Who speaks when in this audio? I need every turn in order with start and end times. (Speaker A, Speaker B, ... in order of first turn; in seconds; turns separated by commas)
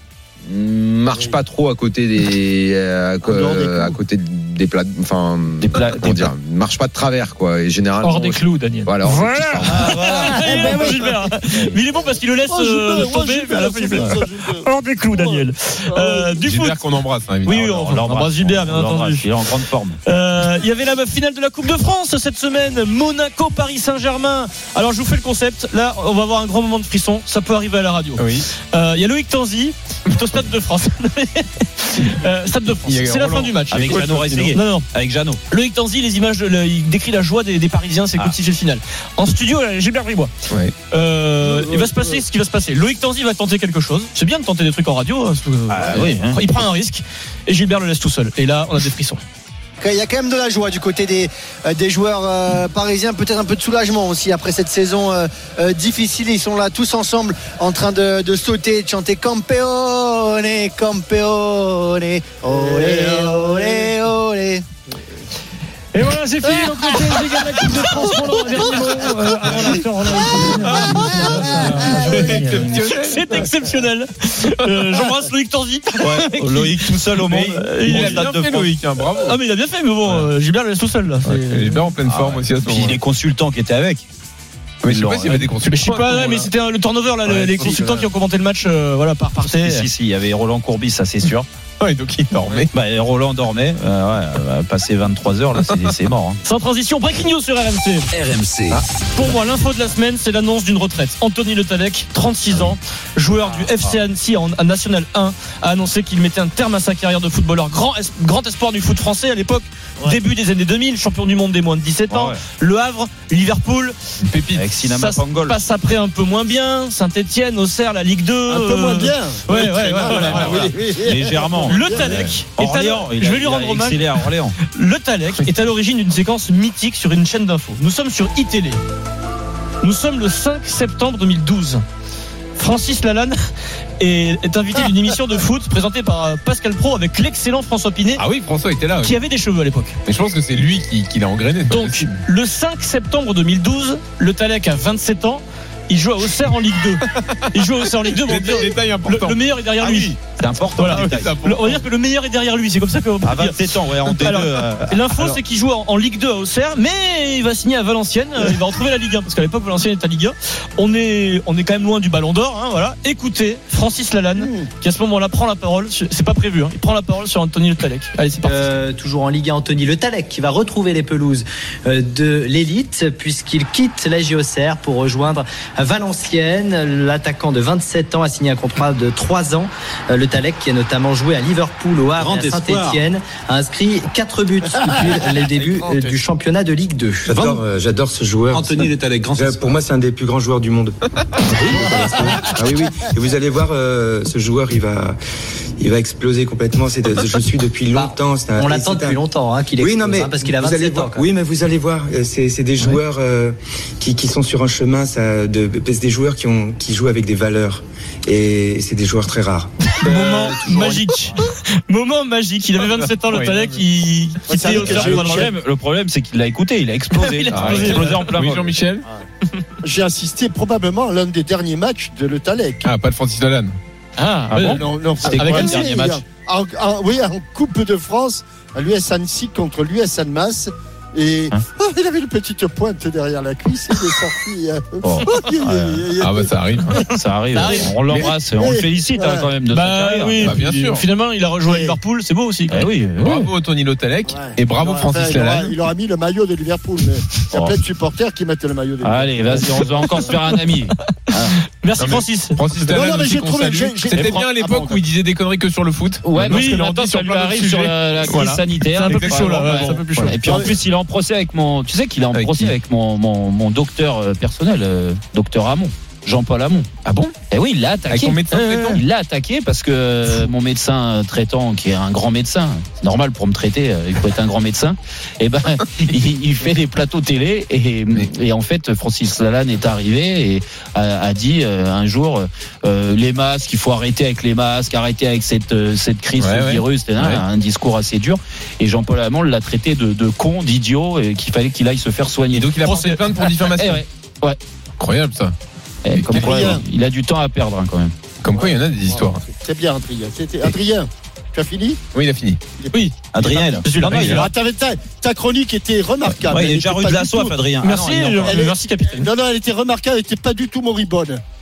Speaker A: 0.5-10.1, Speaker B: 3.2-4.0, Speaker C: 5.6-6.3, Speaker D: 8.0-16.8, Speaker C: 9.6-10.9, Speaker E: 10.1-11.3, Speaker C: 11.5-11.8, Speaker E: 12.4-16.4, Speaker F: 16.4-17.6, Speaker D: 17.4-19.5, Speaker C: 17.5-20.0, Speaker D: 20.0-34.0, Speaker F: 28.2-28.5, Speaker F: 32.7-34.6, Speaker C: 33.7-35.4, Speaker D: 34.5-34.9, Speaker D: 35.5-40.3, Speaker F: 40.5-40.7, Speaker D: 40.9-49.2, Speaker C: 45.7-46.4, Speaker B: 49.8-64.6, Speaker E: 62.5-63.9, Speaker D: 65.9-78.3, Speaker E: 66.5-67.2, Speaker E: 67.9-69.0, Speaker F: 69.5-69.8, Speaker F: 70.5-71.0, Speaker F: 71.5-73.5, Speaker E: 71.7-72.3, Speaker C: 76.0-78.8, Speaker F: 77.3-79.4, Speaker D: 79.1-81.9, Speaker F: 80.0-80.3, Speaker F: 81.2-83.0, Speaker C: 82.0-84.1, Speaker F: 84.8-86.5, Speaker C: 84.8-85.5, Speaker D: 85.7-89.9, Speaker C: 87.2-88.0, Speaker F: 87.5-88.1, Speaker C: 89.4-91.5, Speaker F: 91.8-92.7, Speaker C: 92.6-96.4, Speaker F: 95.5-95.9, Speaker D: 96.4-98.1, Speaker D: 99.1-114.0, Speaker C: 112.1-112.4, Speaker F: 114.2-114.7, Speaker C: 114.5-115.6, Speaker D: 114.8-120.8, Speaker E: 118.5-122.1, Speaker F: 120.2-120.7, Speaker C: 121.0-124.5, Speaker D: 121.6-128.8, Speaker F: 122.1-122.3, Speaker D: 129.8-131.8, Speaker D: 132.6-133.4, Speaker D: 134.0-138.2, Speaker F: 138.2-139.2, Speaker D: 139.0-140.0, Speaker F: 140.1-142.2, Speaker D: 141.7-150.2, Speaker F: 147.1-149.4, Speaker C: 149.8-151.3, Speaker D: 150.8-168.8, Speaker F: 150.8-151.8, Speaker C: 153.2-155.4, Speaker E: 164.4-164.7, Speaker G: 168.4-187.3, Speaker H: 187.3-190.9, Speaker H: 191.5-195.2, Speaker H: 195.8-199.2, Speaker G: 197.9-201.2, Speaker H: 199.8-211.0, Speaker D: 210.0-215.5, Speaker F: 212.8-213.8, Speaker E: 214.5-215.5, Speaker C: 214.6-218.7, Speaker F: 214.8-215.2, Speaker D: 217.1-218.3, Speaker F: 217.5-219.1, Speaker E: 219.8-222.9, Speaker F: 222.8-223.8, Speaker D: 224.2-225.7, Speaker C: 224.5-226.2, Speaker F: 224.6-224.8, Speaker E: 224.8-236.5, Speaker C: 235.0-236.1, Speaker F: 236.2-237.0, Speaker C: 237.1-240.6, Speaker D: 237.5-237.9, Speaker F: 238.0-238.3, Speaker E: 238.5-239.5, Speaker D: 239.7-242.9, Speaker F: 240.4-241.1, Speaker E: 241.7-242.0, Speaker C: 242.7-243.5, Speaker F: 243.2-245.8, Speaker E: 244.3-250.3, Speaker C: 247.5-247.8, Speaker C: 249.0-251.6, Speaker D: 251.8-252.6, Speaker F: 251.9-257.5, Speaker E: 252.8-255.0, Speaker C: 256.2-266.9, Speaker D: 256.5-257.9, Speaker F: 258.2-260.1, Speaker D: 258.9-260.4, Speaker E: 260.3-260.7, Speaker F: 262.3-262.7, Speaker F: 267.0-267.4, Speaker C: 267.5-294.6, Speaker F: 268.1-269.0, Speaker F: 286.4-287.4, Speaker F: 292.5-294.0, Speaker F: 295.0-295.5, Speaker C: 296.0-298.1, Speaker F: 296.1-296.7, Speaker E: 296.3-296.8, Speaker F: 298.4-299.4, Speaker E: 298.5-302.0, Speaker F: 302.1-302.6, Speaker E: 302.8-307.5, Speaker D: 302.9-303.2, Speaker C: 303.3-304.5, Speaker D: 303.8-304.5, Speaker C: 306.3-308.6, Speaker D: 307.8-309.3, Speaker E: 308.4-311.4